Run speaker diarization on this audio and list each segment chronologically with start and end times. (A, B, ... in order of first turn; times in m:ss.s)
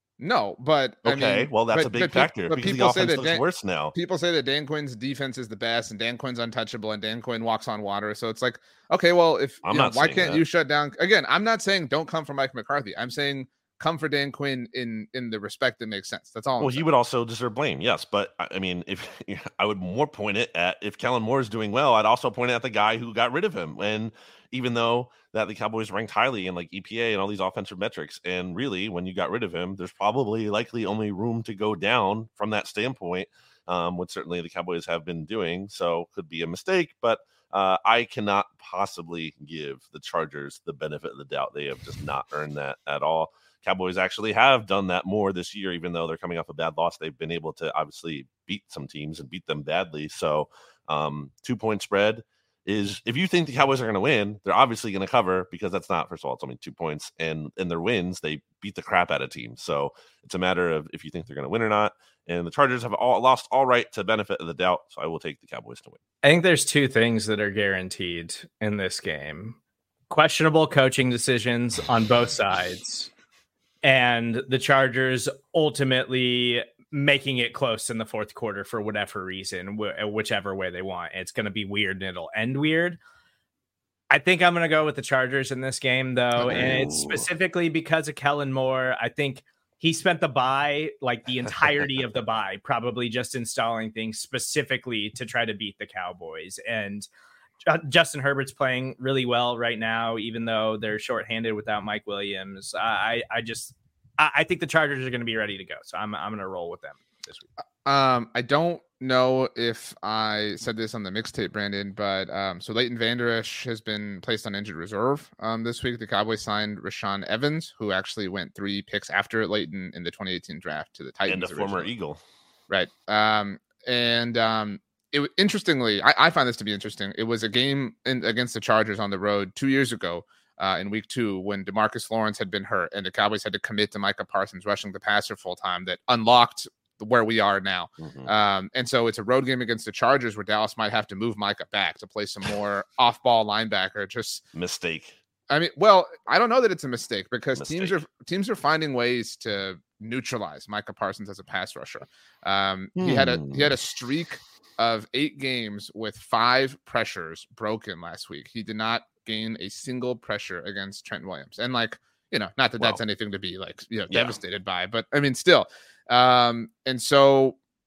0:00.2-0:03.4 A
0:01.0-0:03.9 B
0:03.9-0:16.9 A
0:09.6-0:10.4 B
0:16.6-1:06.0 B
1:06.2-1:09.6 C
1:10.1-1:13.1 C
1:13.8-1:23.0 C
1:24.1-1:37.1 C
1:26.4-1:27.3 B
1:37.7-1:47.5 C
1:47.8-2:01.9 A
2:01.3-2:02.2 B
2:02.7-2:24.4 A
2:18.0-2:18.3 B
2:24.6-2:25.2 B
2:25.5-2:47.6 A
2:27.6-2:28.0 B
2:33.0-2:33.7 B
2:44.1-2:44.4 B